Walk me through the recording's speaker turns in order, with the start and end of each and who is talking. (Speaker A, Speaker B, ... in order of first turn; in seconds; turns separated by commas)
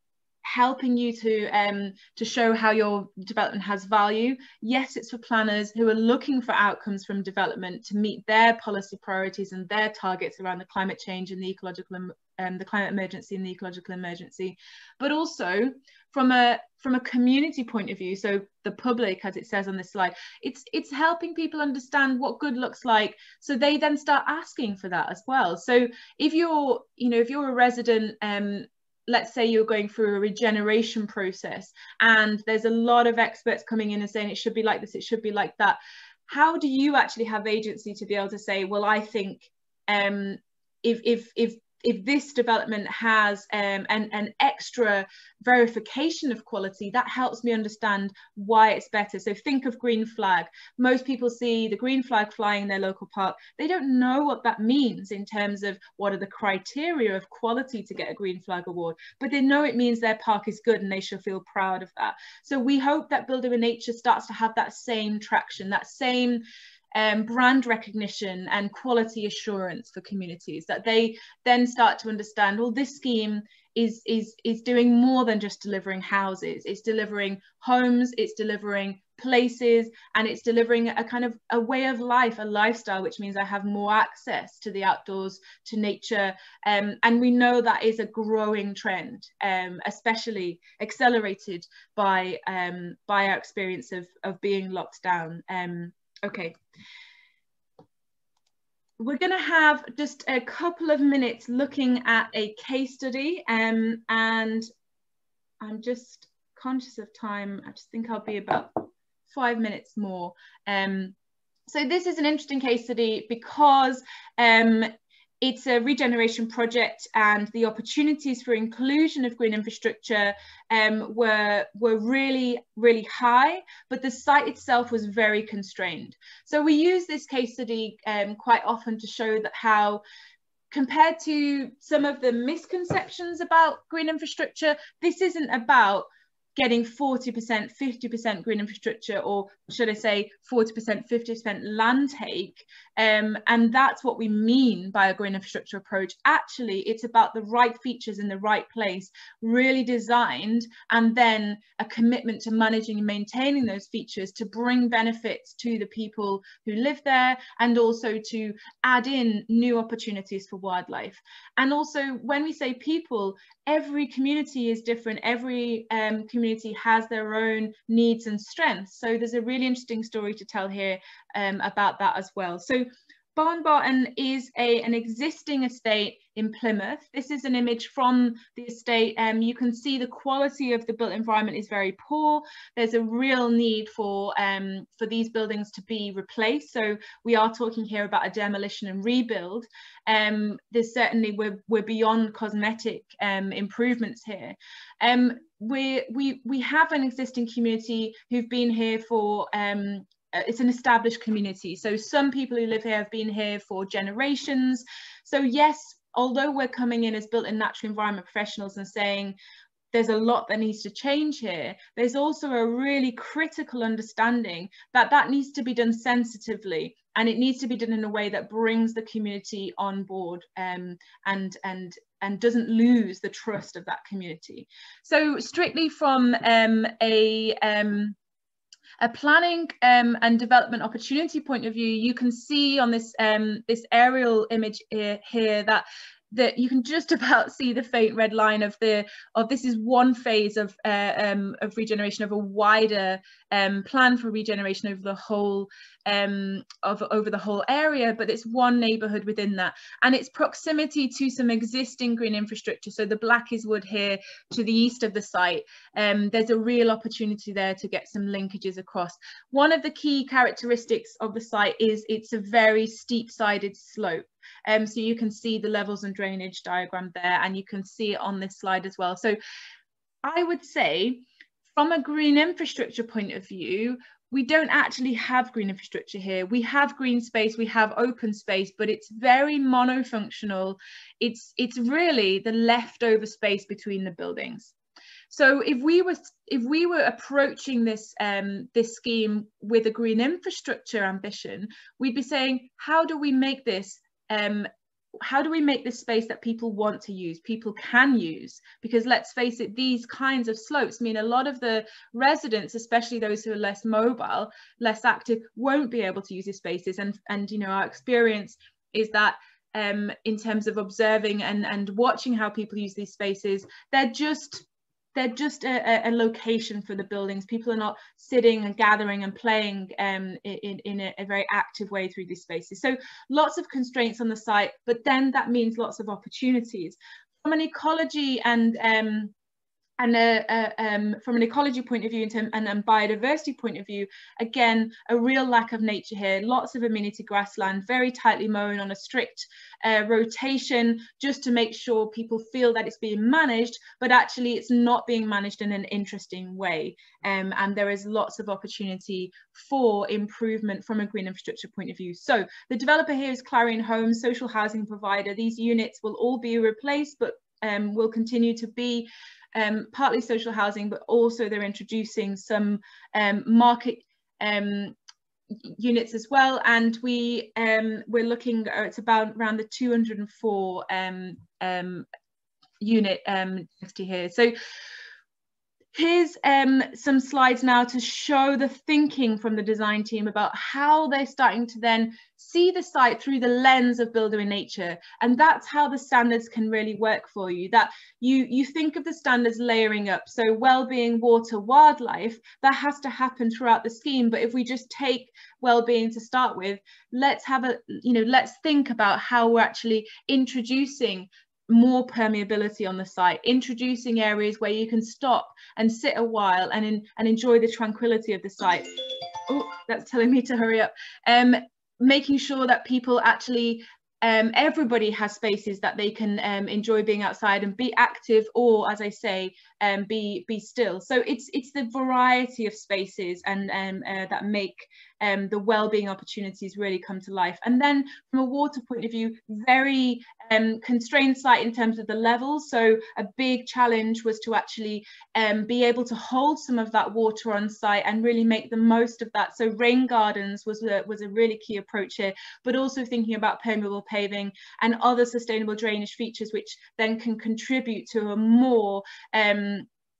Speaker A: 0.4-66.4, Speaker A: 66.9-96.6, Speaker A: 99.0-104.7, Speaker A: 105.6-111.1, Speaker A: 111.7-130.0, Speaker A: 130.7-209.3, Speaker A: 209.9-228.2, Speaker A: 229.0-269.4, Speaker A: 270.2-284.7, Speaker A: 285.3-329.3, Speaker A: 330.0-364.9, Speaker A: 365.6-372.1, Speaker A: 372.8-374.5, Speaker A: 375.9-449.9